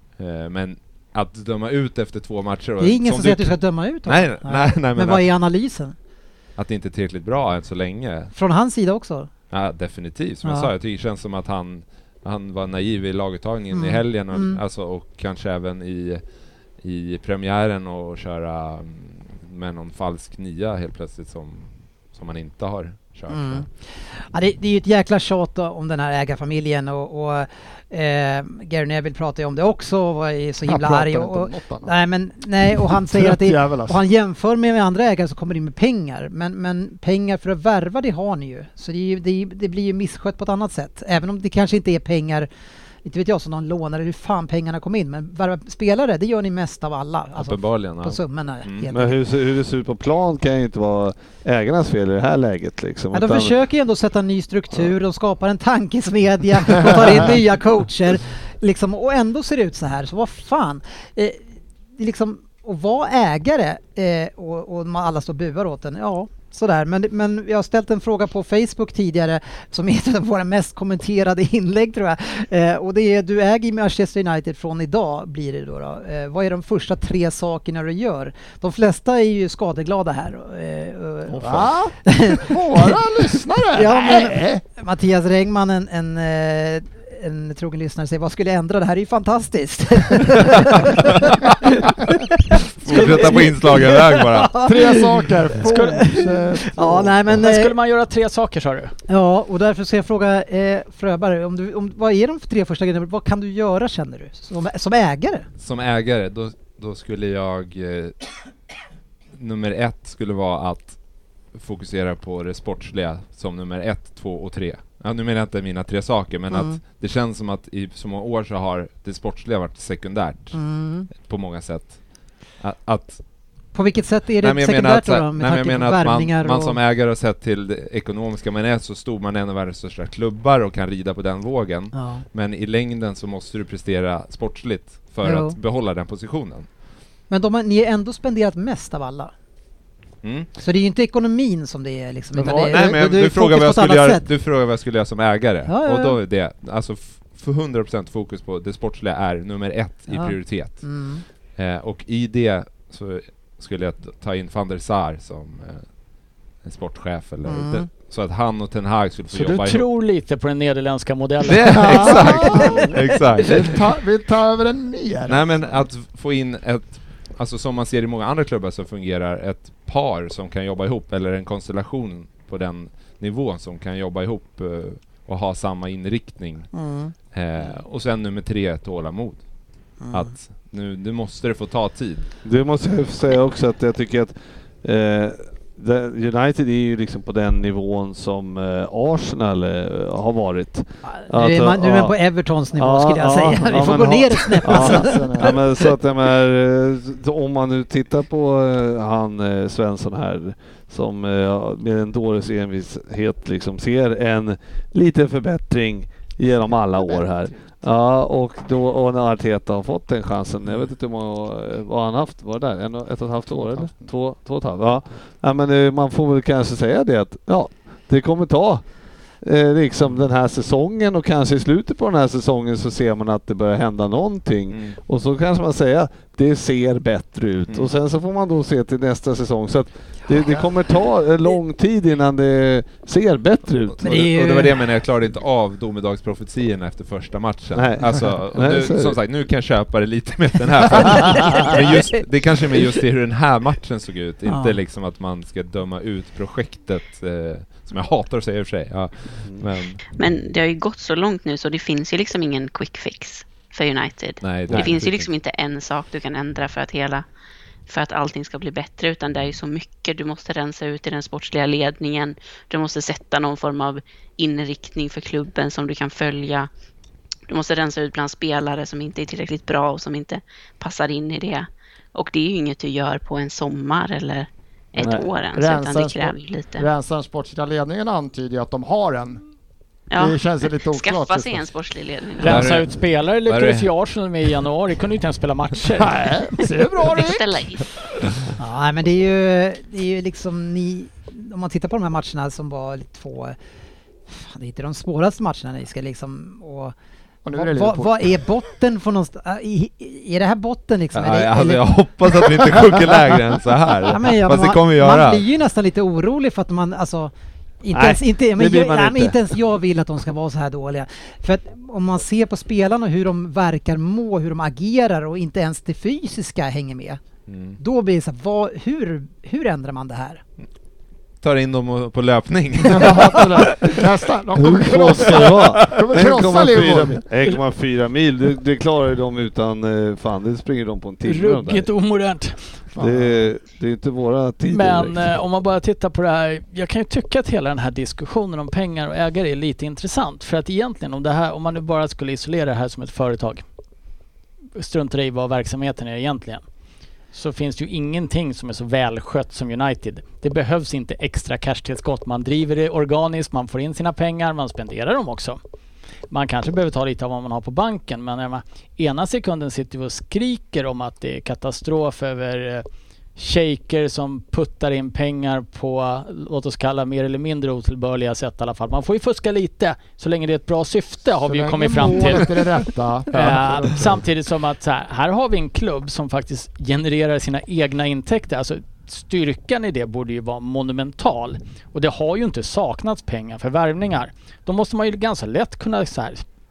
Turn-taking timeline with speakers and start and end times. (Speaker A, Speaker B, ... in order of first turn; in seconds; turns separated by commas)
Speaker A: 0.2-5.3, Speaker B: 2.8-5.9, Speaker A: 6.6-8.3, Speaker B: 8.3-9.3, Speaker A: 9.5-16.2, Speaker B: 10.4-10.7, Speaker B: 13.7-14.6, Speaker A: 16.8-23.6, Speaker B: 23.3-42.5, Speaker C: 30.6-31.9, Speaker C: 32.9-34.0, Speaker B: 43.0-49.2, Speaker A: 47.4-48.9, Speaker D: 48.9-53.6, Speaker B: 53.1-61.4, Speaker B: 62.0-83.0, Speaker C: 81.4-84.6, Speaker B: 83.7-97.7, Speaker A: 90.5-91.7, Speaker A: 92.8-94.6, Speaker C: 94.6-97.3, Speaker E: 95.6-96.2, Speaker E: 97.3-98.9, Speaker B: 99.1-105.5, Speaker A: 105.6-108.2, Speaker A: 109.3-111.0, Speaker A: 111.5-120.6, Speaker B: 116.5-116.8, Speaker B: 120.5-121.1, Speaker A: 121.1-122.0, Speaker A: 122.6-123.2, Speaker B: 123.7-126.8, Speaker A: 124.4-136.7, Speaker B: 131.9-132.2, Speaker B: 135.2-135.6, Speaker B: 137.3-139.3, Speaker A: 140.2-140.5, Speaker B: 140.6-144.3, Speaker A: 142.3-150.8, Speaker B: 145.7-146.2, Speaker B: 150.1-151.2, Speaker A: 151.6-155.8, Speaker A: 156.6-159.8, Speaker B: 157.4-157.9, Speaker E: 159.3-162.6, Speaker A: 161.4-163.8, Speaker C: 161.8-162.8, Speaker B: 162.4-162.9, Speaker C: 163.4-165.6, Speaker A: 165.3-176.7, Speaker B: 176.7-177.1, Speaker A: 177.3-179.4, Speaker B: 180.0-180.3, Speaker A: 180.1-182.3, Speaker D: 182.4-192.2, Speaker B: 191.2-195.5, Speaker D: 192.7-218.8, Speaker C: 194.7-195.6, Speaker C: 213.8-214.0, Speaker D: 219.4-234.1, Speaker A: 224.7-224.9, Speaker A: 234.0-250.0, Speaker B: 234.0-234.9, Speaker D: 237.7-239.2, Speaker B: 241.3-241.9, Speaker B: 244.4-244.8, Speaker F: 250.2-257.2, Speaker A: 254.4-255.3, Speaker D: 254.7-255.1, Speaker F: 257.9-266.7, Speaker F: 267.5-276.9, Speaker D: 275.0-275.2, Speaker C: 275.5-279.4, Speaker F: 280.1-282.8, Speaker C: 280.1-281.6, Speaker E: 282.4-286.2, Speaker A: 282.4-283.9, Speaker C: 286.0-287.6, Speaker F: 287.0-287.9, Speaker B: 288.6-293.6, Speaker B: 294.3-296.9, Speaker C: 297.4-298.2, Speaker B: 297.5-302.6, Speaker A: 301.1-305.4, Speaker B: 304.0-317.2, Speaker D: 307.9-309.5, Speaker A: 317.5-317.8, Speaker B: 317.8-320.4, Speaker A: 321.4-324.0, Speaker C: 322.9-327.2, Speaker D: 324.6-331.9, Speaker A: 325.2-325.9, Speaker E: 331.2-332.6, Speaker C: 332.9-333.3, Speaker D: 333.0-335.3, Speaker E: 334.7-343.6, Speaker E: 344.8-346.6, Speaker E: 347.3-355.6, Speaker E: 356.3-372.5, Speaker C: 371.4-374.2, Speaker E: 373.3-386.4